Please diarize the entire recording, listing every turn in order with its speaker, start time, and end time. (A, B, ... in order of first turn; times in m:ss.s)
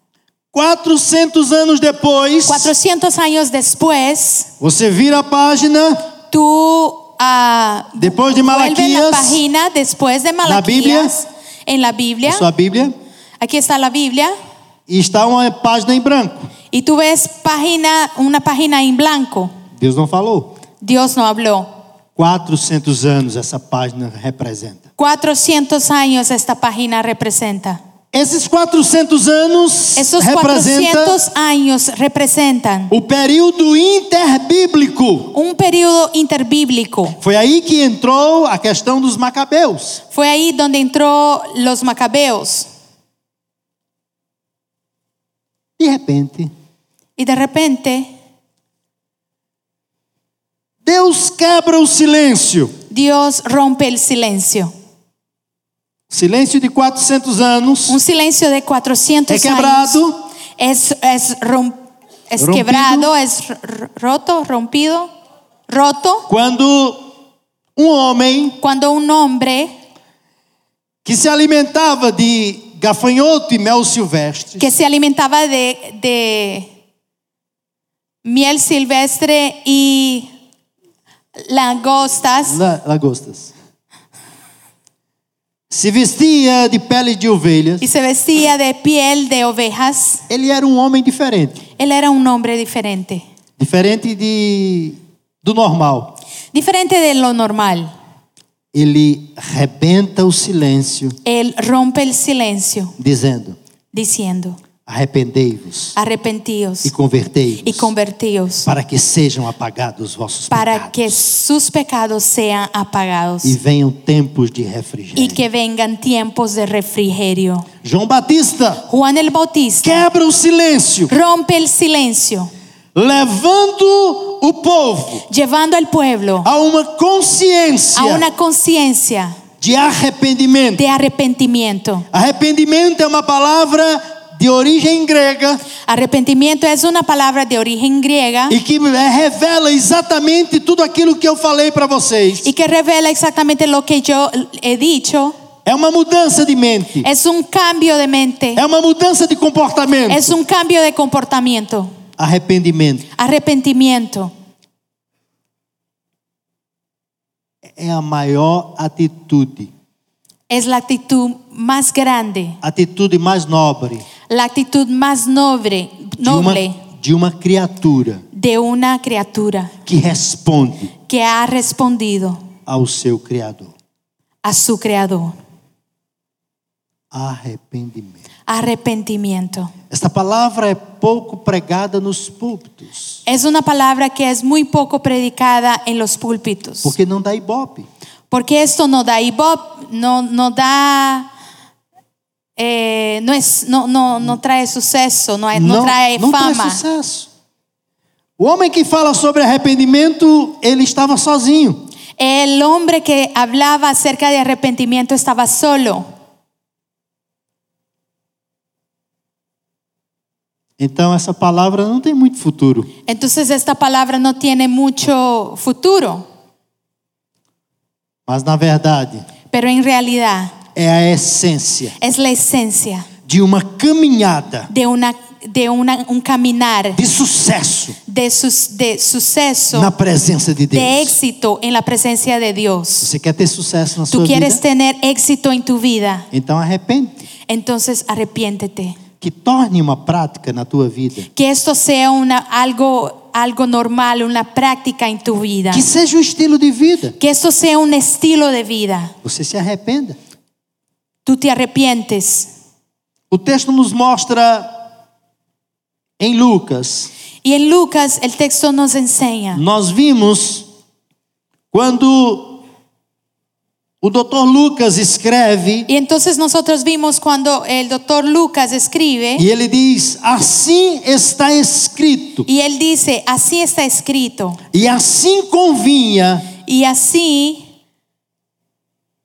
0:00.5-0:02.7 A
0:02.4-0:04.5 B
0:04.6-0:06.0 A
0:06.3-0:12.4 B
0:08.0-0:09.4 A
0:10.4-0:11.1 A
0:12.2-0:12.9 A
0:13.4-0:14.3 B
0:14.9-0:16.5 A
0:16.7-0:19.5 B
0:19.8-0:20.5 A
0:20.8-0:21.7 B
0:22.2-0:24.8 A
0:25.0-0:27.8 B
0:28.1-0:31.2 A
0:30.0-0:32.9 B
0:32.9-0:35.3 A
0:35.3-0:37.2 B
0:37.2-0:40.0 A
0:40.1-0:42.7 B
0:45.8-0:46.5 A
0:47.2-0:48.1 B
0:50.8-0:52.7 A
0:52.9-0:54.7 B
0:56.1-0:58.0 A
0:57.9-1:00.0 B
0:59.3-1:00.2 A
1:00.6-1:01.8 B
1:02.3-1:05.1 B
1:02.4-1:03.1 A
1:05.7-1:06.3 B
1:06.3-1:07.1 A
1:07.8-1:08.6 A
1:08.6-1:09.7 B
1:11.0-1:14.7 A
1:14.6-1:16.7 B
1:18.2-1:20.3 B
1:21.4-1:22.6 B
1:22.4-1:23.5 A
1:25.7-1:27.8 A
1:27.8-1:30.2 B
1:30.3-1:31.6 A
1:31.8-1:33.2 B
1:33.6-1:36.2 A
1:36.5-1:37.9 B
1:38.7-1:41.2 A
1:41.2-1:42.9 B
1:43.0-1:43.6 A
1:43.9-1:44.6 B
1:44.8-1:45.9 A
1:46.0-1:46.9 B
1:46.8-1:47.9 A
1:47.6-1:48.7 B
1:48.6-1:51.2 A
1:50.5-1:53.6 B
1:53.4-1:55.4 A
1:55.2-1:57.7 B
1:57.8-1:58.8 A
1:58.9-2:00.0 B
1:59.8-2:01.1 A
2:01.1-2:02.5 B
2:02.9-2:05.2 A
2:05.3-2:06.5 B
2:06.4-2:08.3 A
2:07.9-2:09.4 B
2:09.6-2:10.8 A
2:10.8-2:12.1 B
2:12.1-2:15.6 A
2:15.8-2:18.6 B
2:18.5-2:22.5 A
2:22.4-2:25.4 B
2:25.6-2:27.1 A
2:27.0-2:28.6 B
2:28.6-2:30.4 A
2:30.1-2:31.9 B
2:32.2-2:33.1 A
2:33.2-2:34.3 B
2:37.6-2:39.7 A
2:40.5-2:42.6 B
2:42.6-2:44.1 A
2:44.3-2:46.8 B
2:46.2-2:48.2 A
2:48.3-2:49.8 B
2:49.8-2:50.9 A
2:51.1-2:52.4 B
2:52.6-2:53.7 A
2:54.4-2:55.4 B
2:57.1-2:58.2 A
2:58.5-2:59.7 B
2:59.9-3:03.2 A
3:03.2-3:06.9 B
3:06.8-3:07.9 A
3:08.3-3:11.3 B
3:12.6-3:16.8 B
3:15.5-3:17.3 A
3:18.4-3:21.8 A
3:22.2-3:26.0 B
3:30.8-3:32.9 A
3:33.0-3:36.2 B
3:38.3-3:39.2 A
3:39.5-3:40.6 B
3:40.7-3:42.0 A
3:42.0-3:43.1 B
3:43.3-3:44.7 A
3:44.7-3:47.0 B
3:46.9-3:48.0 A
3:48.1-3:49.9 B
3:49.7-3:51.1 A
3:50.7-3:53.1 B
3:53.0-3:54.6 A
3:54.1-3:56.3 B
3:56.3-3:57.2 A
3:57.5-3:59.0 B
3:59.2-4:01.3 A
4:01.3-4:05.8 B
4:05.7-4:07.2 A
4:07.2-4:09.1 B
4:09.2-4:10.2 A
4:11.2-4:12.5 B
4:13.3-4:14.8 A
4:16.2-4:17.1 A
4:17.4-4:19.6 B
4:19.5-4:20.6 A
4:21.7-4:22.6 A
4:24.0-4:25.9 A
4:25.9-4:29.4 B
4:29.4-4:32.4 A
4:32.4-4:34.6 B
4:34.7-4:36.5 A
4:36.6-4:37.6 B